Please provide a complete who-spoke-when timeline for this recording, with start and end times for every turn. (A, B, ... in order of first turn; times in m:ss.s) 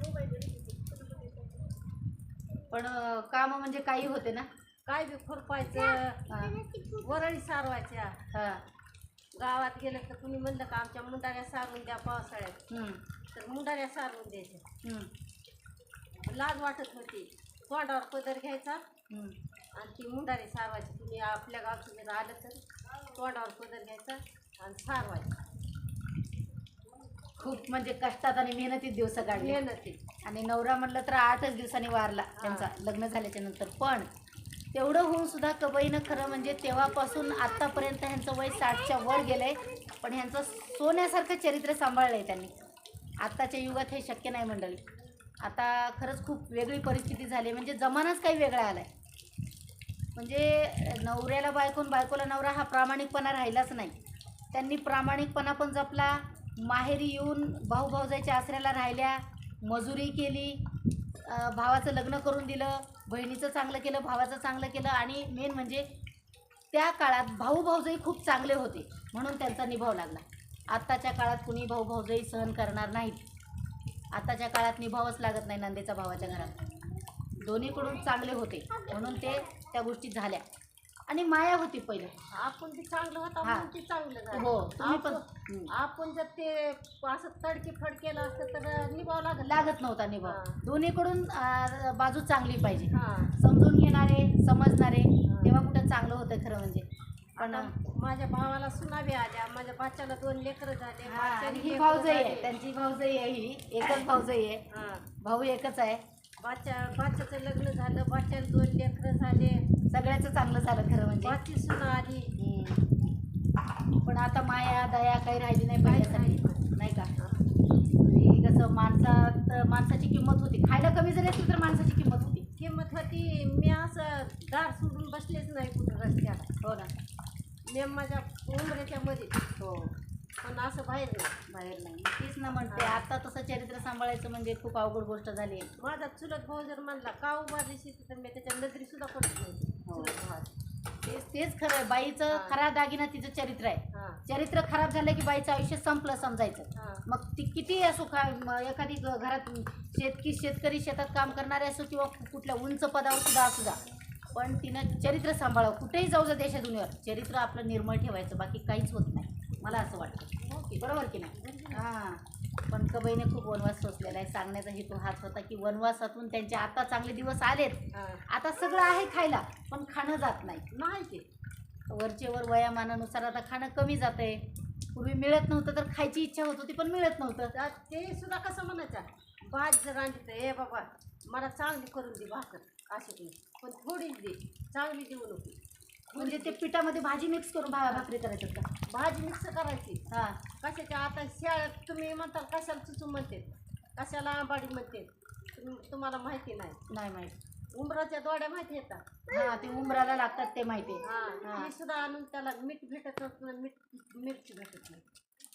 0:02.7-0:04.5 A
0:04.9-0:06.3 B
0:06.3-0:06.6 A
0:06.8-0:08.2 B
0:08.3-0:08.6 A
0:09.4-0:12.6 B
0:12.7-0:13.0 A
0:13.3-0:14.6 B
0:14.8-0:15.1 A
0:16.2-0:18.8 B
0:19.1-0:19.3 A
0:19.8-0:22.6 B
0:23.1-0:25.4 B
0:27.4-0:29.6 A
0:29.3-0:30.0 B
0:30.2-0:34.1 A
0:32.4-0:32.7 B
0:34.7-0:42.5 A
0:43.2-0:44.8 A
0:45.4-0:48.9 A
0:50.2-0:53.9 A
0:54.5-1:00.6 A
1:01.2-1:05.9 A
1:06.7-1:13.2 A
1:14.1-1:16.6 A
1:17.4-1:20.4 A
1:21.1-1:22.1 A
1:22.3-1:30.6 B
1:23.4-1:23.7 A
1:24.3-1:25.7 A
1:29.4-1:36.8 A
1:32.9-1:33.3 B
1:35.2-1:35.5 B
1:37.4-1:42.5 B
1:37.4-1:37.7 A
1:41.1-1:44.6 A
1:44.7-1:45.0 B
1:45.2-1:46.0 A
1:46.4-1:49.6 B
1:49.9-1:51.4 A
1:51.2-1:52.3 B
1:52.4-1:52.8 A
1:54.0-1:57.1 A
1:55.8-1:57.5 B
1:58.0-2:02.4 A
2:02.6-2:06.5 B
2:06.6-2:06.9 A
2:07.7-2:09.4 B
2:09.6-2:09.9 A
2:10.4-2:11.4 B
2:11.5-2:15.7 A
2:12.7-2:13.0 B
2:15.8-2:20.5 B
2:19.9-2:20.2 A
2:21.0-2:33.8 A
2:22.3-2:22.6 B
2:23.9-2:24.2 B
2:26.7-2:27.0 B
2:34.3-2:50.6 A
2:40.4-2:41.8 B
2:47.9-2:48.2 B
2:50.7-2:51.2 B
2:51.9-2:54.4 A
2:54.9-2:57.5 A
2:57.5-3:05.6 B
3:06.1-3:06.6 B
3:06.2-3:08.7 A
3:08.9-3:10.0 B
3:10.1-3:10.4 A
3:10.6-3:16.8 B
3:16.9-3:17.3 A
3:17.8-3:19.0 B
3:19.3-3:21.7 A
3:21.0-3:25.0 B